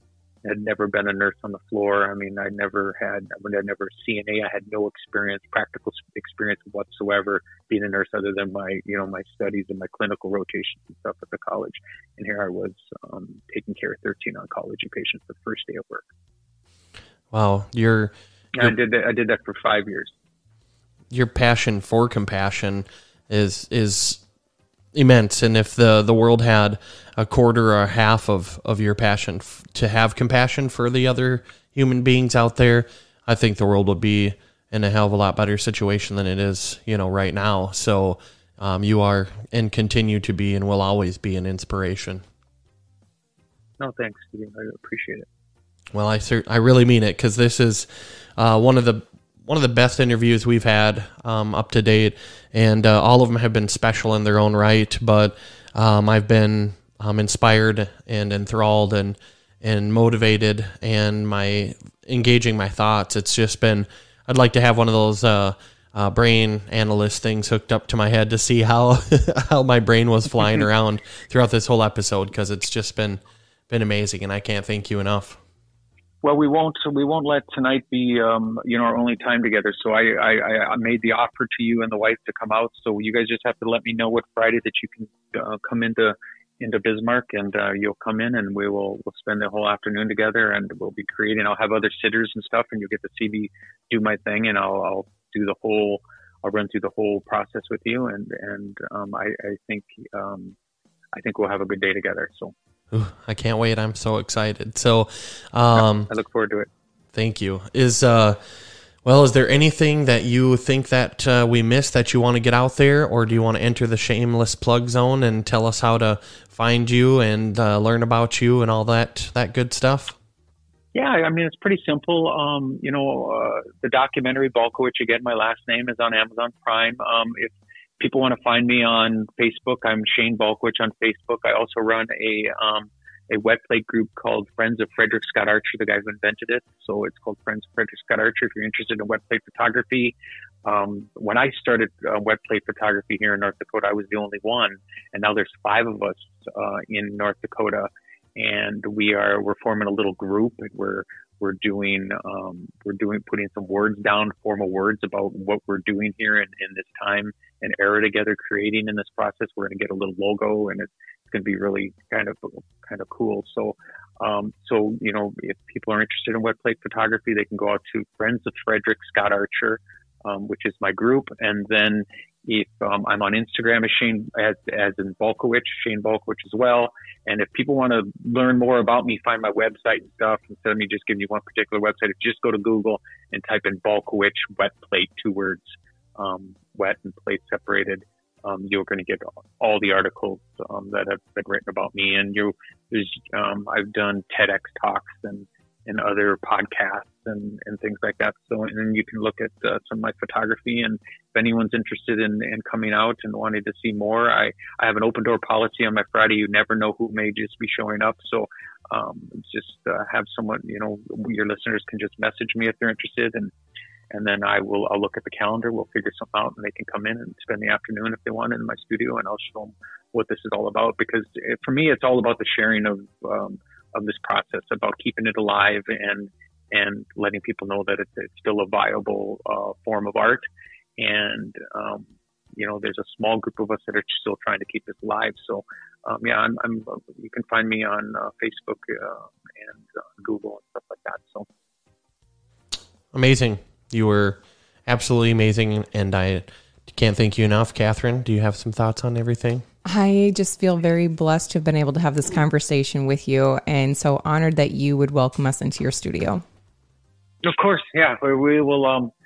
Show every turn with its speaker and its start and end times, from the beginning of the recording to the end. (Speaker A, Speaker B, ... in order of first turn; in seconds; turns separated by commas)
Speaker A: 0.4-16.1, Speaker B: 17.3-18.7, Speaker A: 18.6-20.1, Speaker B: 21.1-24.2, Speaker B: 24.9-42.2, Speaker A: 43.8-45.3, Speaker B: 45.9-75.4, Speaker A: 76.2-100.6, Speaker A: 101.1-102.5, Speaker B: 102.9-106.1, Speaker A: 105.7-106.7, Speaker B: 107.1-108.4, Speaker B: 109.0-120.2, Speaker A: 120.9-213.5, Speaker A: 214.1-230.4, Speaker A: 231.0-241.5, Speaker B: 243.1-249.6, Speaker C: 249.8-256.4, Speaker A: 257.4-259.1